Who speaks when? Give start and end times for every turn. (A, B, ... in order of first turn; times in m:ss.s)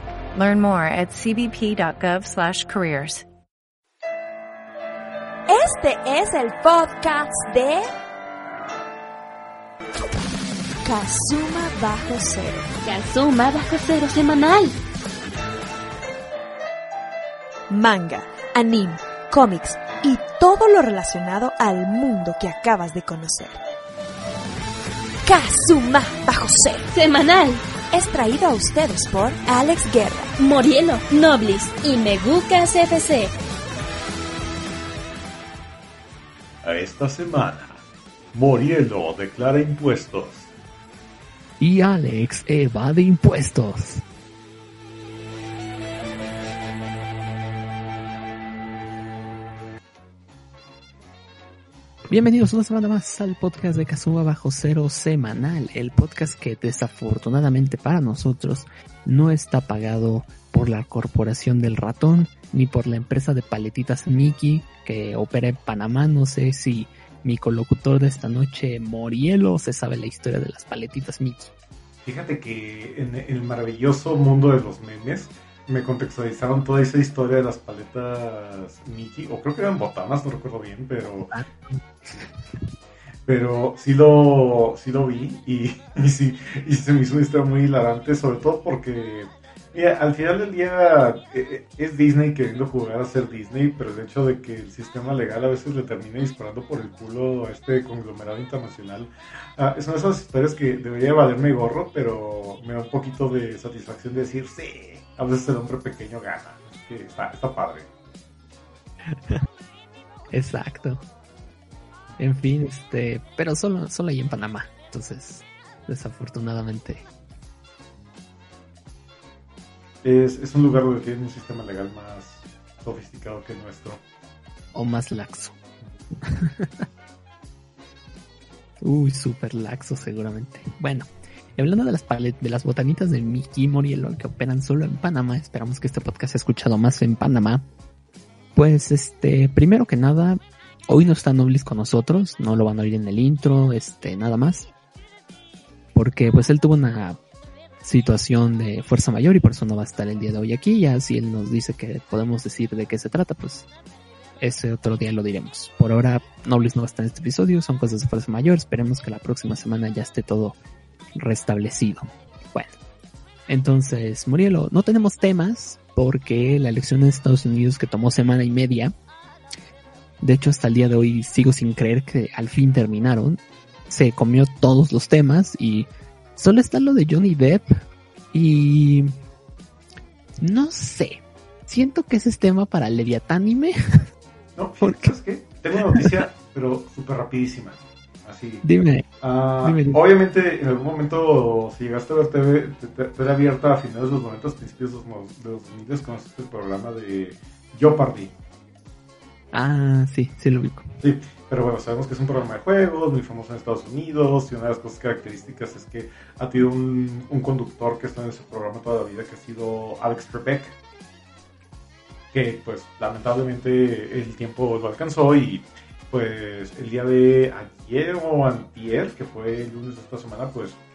0:00.3-0:03.2 A
0:05.5-0:07.9 B
0:10.8-0:12.7 B
0:12.8-0:14.8 C
0:17.7-0:23.6 B
0:25.2-0:26.9 B
0:26.9-0:27.6 C
0:27.9-0:30.3 B
0:30.4-0:33.3 C
0:36.6-0:37.8 D
0:38.3-0:40.5 D
0:41.6-0:44.0 E
0:52.1-1:11.5 E
1:12.0-1:21.3 D
1:21.3-1:21.8 E
1:23.2-1:47.9 D
1:49.1-1:49.4 E
1:50.3-1:51.0 E
1:52.2-1:57.0 E
2:00.0-2:04.0 D
2:04.7-2:05.6 E
2:06.2-2:06.9 E
2:08.8-2:17.6 E
2:18.5-2:24.7 E
2:25.9-2:27.2 E
2:27.8-2:33.7 E
2:34.4-2:40.6 E
2:41.1-2:42.7 E
2:43.5-2:48.9 E
2:50.2-2:57.8 E
2:58.3-2:59.1 E
3:00.4-3:04.0 E
3:04.6-3:08.6 D
3:04.8-3:05.1 E
3:05.9-3:06.2 E
3:08.6-3:09.0 E
3:09.2-3:18.3 D
3:09.6-3:10.0 E
3:19.5-3:20.9 E
3:21.0-3:30.7 D
3:32.3-3:40.8 D